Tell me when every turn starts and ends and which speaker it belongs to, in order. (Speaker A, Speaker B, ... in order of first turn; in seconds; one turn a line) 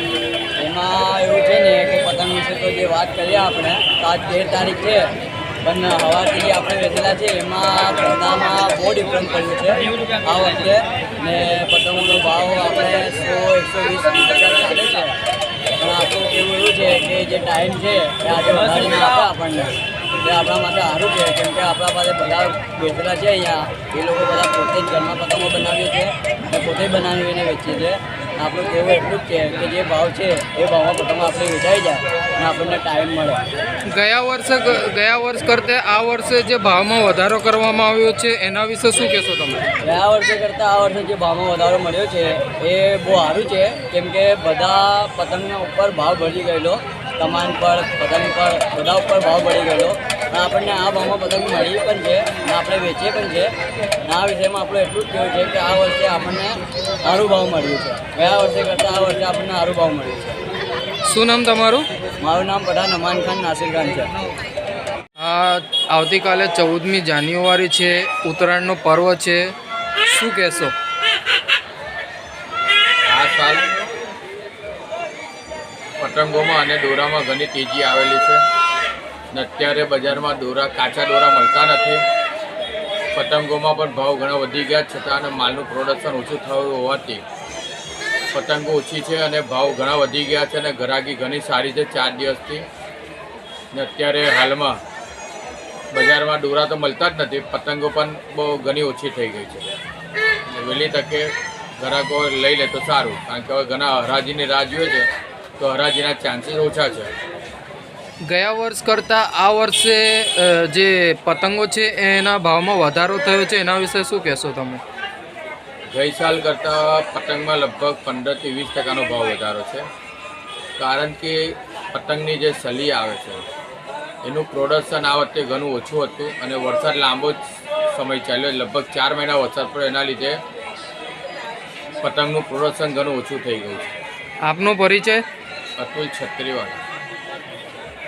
Speaker A: 0.6-5.1
Speaker A: 5.6-15.2
Speaker A: 15.8-33.4
Speaker B: 33.9-39.7
Speaker A: 39.8-53.5
Speaker A: 54.0-60.4
Speaker B: 61.0-61.8
Speaker A: 62.2-64.1
Speaker B: 65.2-69.4
Speaker B: 70.1-70.7
Speaker C: 73.1-73.7
Speaker C: 76.0-78.4
Speaker C: 79.3-82.0
Speaker C: 83.2-87.2
Speaker C: 88.3-92.7
Speaker C: 93.7-94.8
Speaker C: 95.9-99.7
Speaker C: 100.5-105.1
Speaker C: 105.6-107.1
Speaker B: 108.3-114.8
Speaker C: 115.9-119.9
Speaker C: 120.8-121.4
Speaker C: 121.9-123.4
Speaker C: 124.2-127.4
Speaker C: 127.9-130.4
Speaker C: 132.0-133.9
Speaker B: 134.4-135.2
Speaker C: 135.8-136.8